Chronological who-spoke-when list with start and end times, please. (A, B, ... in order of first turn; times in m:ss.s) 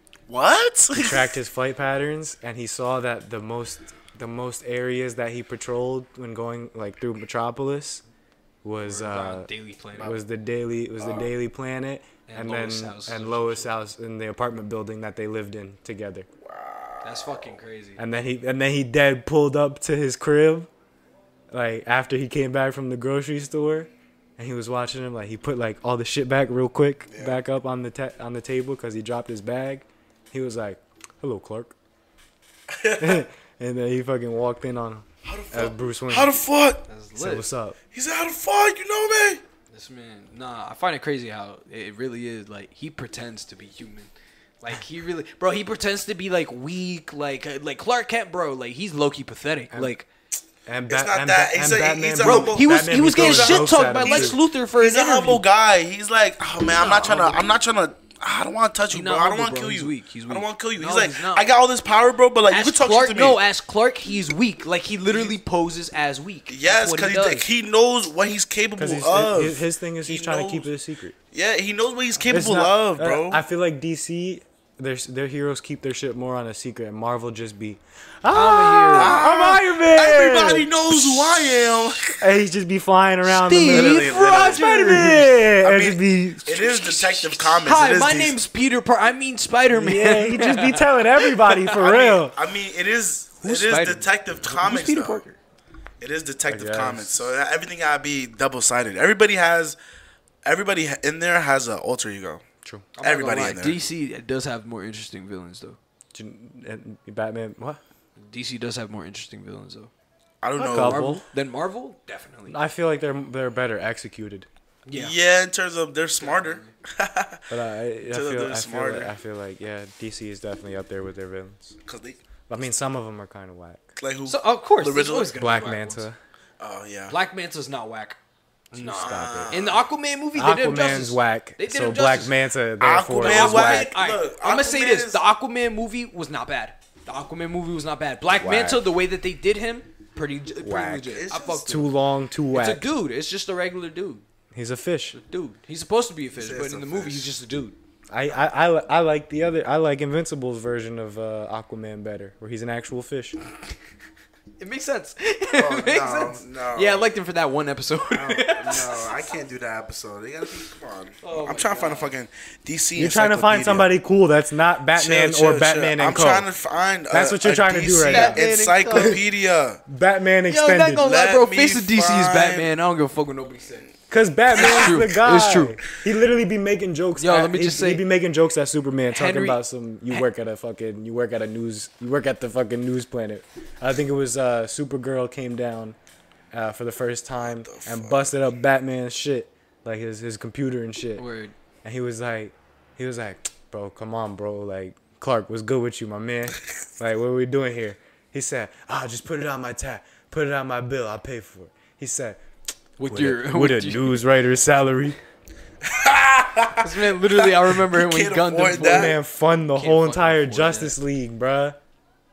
0:00.3-0:01.3 A
0:00.9-0:08.0 B
0:08.6-0:16.3 B
0:08.8-0:10.2 C
0:12.3-0:13.7 C
0:16.4-0:17.5 A
0:17.0-0:18.0 C
0:18.0-0:20.7 B
0:21.5-0:31.7 B
0:27.1-0:27.4 A
0:32.7-0:33.2 A
0:33.0-0:36.4 B
0:35.2-0:36.8 A
0:36.9-0:37.4 C
0:37.2-0:37.8 B
0:37.9-0:39.4 A
0:39.7-0:50.0 C
0:50.6-0:54.4 B
0:50.9-1:03.4 A
0:52.2-0:55.4 C
0:56.6-0:57.4 C
0:58.9-1:01.5 C
1:02.5-1:07.5 C
1:05.1-1:05.3 A
1:06.5-1:10.7 A
1:08.8-1:11.1 B
1:11.3-1:13.4 A
1:12.3-1:26.5 B
1:18.3-1:19.2 C
1:18.9-1:22.2 A
1:23.3-1:25.4 C
1:23.7-1:24.7 A
1:25.6-1:28.4 A
1:26.5-1:31.8 C
1:29.7-1:32.3 B
1:31.8-1:35.2 A
1:33.4-1:35.4 C
1:36.0-1:39.8 A
1:36.5-1:37.3 B
1:40.4-1:42.4 A
1:42.6-1:42.9 B
1:43.0-1:45.8 C
1:43.0-1:43.8 A
1:46.1-1:47.8 B
1:48.2-1:49.9 C
1:50.4-1:51.1 A
1:50.6-1:51.2 B
1:50.6-1:52.6 C
1:52.5-1:54.5 B
1:54.8-1:55.1 C
1:54.9-1:57.4 A
1:56.2-1:56.7 C
1:57.5-2:01.8 B
1:58.1-1:59.1 A
2:01.9-2:02.2 A
2:02.5-2:03.9 B
2:04.0-2:05.3 A
2:04.2-2:06.0 C
2:05.3-2:06.2 B
2:06.6-2:07.2 A
2:07.1-2:08.2 C
2:08.7-2:12.3 C
2:08.7-2:09.5 B
2:09.0-2:09.8 A
2:10.3-2:13.9 B
2:12.8-2:15.2 A
2:13.2-2:21.9 C
2:18.3-2:18.8 B
2:20.6-2:21.2 B
2:21.1-2:21.8 A
2:21.7-2:22.9 B
2:22.5-2:24.2 C
2:24.5-2:25.2 B
2:25.1-2:27.8 C
2:26.4-2:27.3 A
2:28.1-2:33.4 B
2:34.6-2:39.3 C
2:35.5-2:37.1 A
2:38.1-2:43.9 A
2:41.2-2:42.1 C
2:43.0-2:46.4 B
2:44.9-2:49.8 A
2:47.1-2:49.2 B
2:48.1-2:49.2 C
2:49.9-2:51.1 B
2:50.5-2:53.9 C
2:51.0-2:52.7 A
2:54.1-3:06.0 B
2:54.5-2:55.8 C
2:54.5-2:54.9 A
2:57.2-2:58.0 C
2:59.1-2:59.6 C
3:06.5-3:11.2 B
3:07.4-3:08.3 A
3:11.2-3:11.5 C
3:11.8-3:22.4 B
3:23.0-3:24.2 C
3:23.0-3:25.2 B
3:25.8-3:29.2 A
3:26.8-3:29.2 C
3:28.8-3:31.8 B
3:29.7-3:30.9 C